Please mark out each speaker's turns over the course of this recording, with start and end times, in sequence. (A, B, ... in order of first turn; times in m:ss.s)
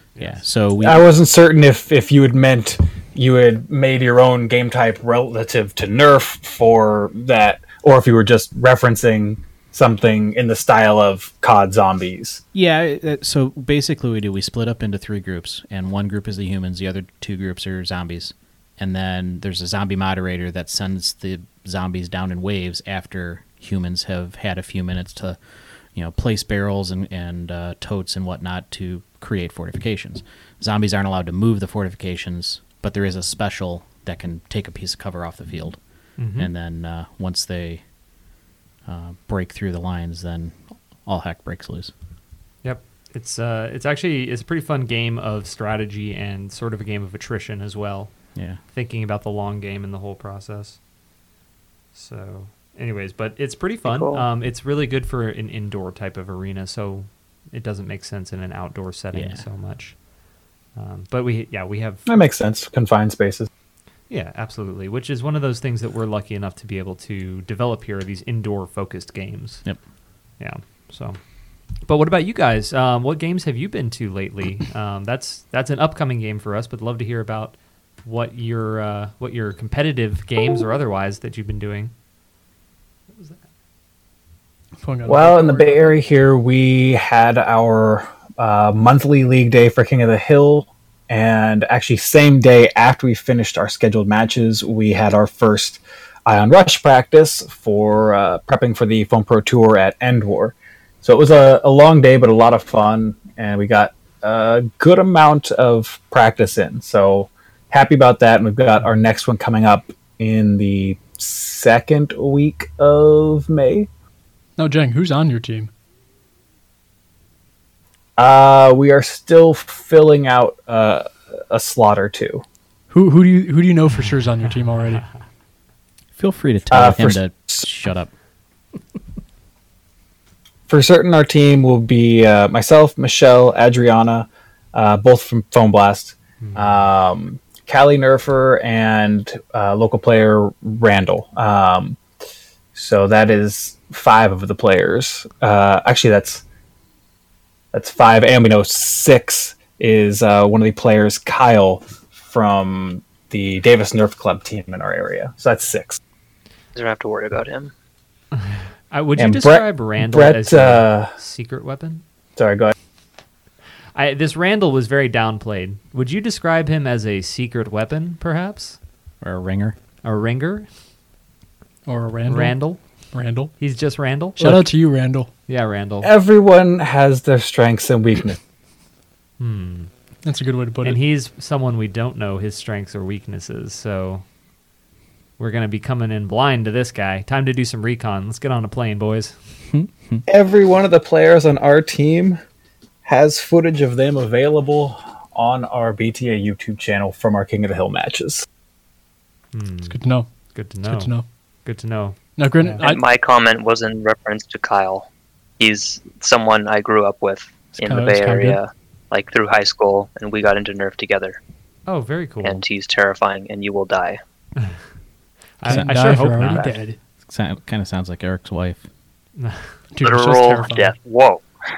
0:00.2-0:01.0 A
0:00.8-0:12.4 B
0:12.5-0:25.4 A
0:25.9-0:35.8 A
0:36.2-0:36.5 C
0:36.3-0:37.8 A
0:38.8-0:41.9 A
0:42.6-0:50.8 C
0:51.9-1:00.0 C
0:53.8-0:54.2 D
0:59.1-0:59.4 A
1:00.7-1:02.0 C
1:02.0-1:03.5 B
1:04.1-1:09.6 C
1:10.4-1:11.2 C
1:11.8-1:21.9 C
1:24.8-1:25.9 E
1:25.0-1:53.9 B
1:54.6-1:55.7 E
1:58.2-2:02.4 B
2:02.9-2:05.0 E
2:06.2-2:08.1 A
2:06.7-2:07.6 B
2:10.7-2:22.0 B
2:22.7-2:26.4 B
2:27.7-2:36.0 B
2:36.7-2:37.7 D
2:38.4-2:42.0 C
2:39.2-2:41.1 B
2:42.4-2:42.7 B
2:43.9-2:48.8 C
2:49.2-2:49.8 A
2:50.0-2:50.7 C
2:51.9-2:53.5 E
2:52.3-2:52.8 C
2:53.6-2:54.7 C
2:54.4-2:55.3 E
2:55.5-2:56.1 C
2:56.0-2:58.4 B
2:59.4-2:59.9 C
3:00.2-3:01.0 E
3:00.8-3:04.2 C
3:05.4-3:09.4 C
3:09.7-3:10.2 A
3:10.3-3:12.4 B
3:13.0-3:18.4 B
3:19.5-3:20.0 C
3:19.9-3:20.3 E
3:20.5-3:22.8 C
3:20.8-3:21.2 E
3:22.4-3:23.0 E
3:22.8-3:25.1 D
3:25.6-3:31.4 D
3:27.8-3:28.6 E
3:31.9-3:32.6 C
3:32.4-3:34.2 D
3:35.6-3:36.7 C
3:35.6-3:37.0 E
3:36.0-3:36.8 D
3:37.2-3:38.8 A
3:39.4-3:39.7 C
3:39.9-3:40.9 E
3:40.0-3:41.4 D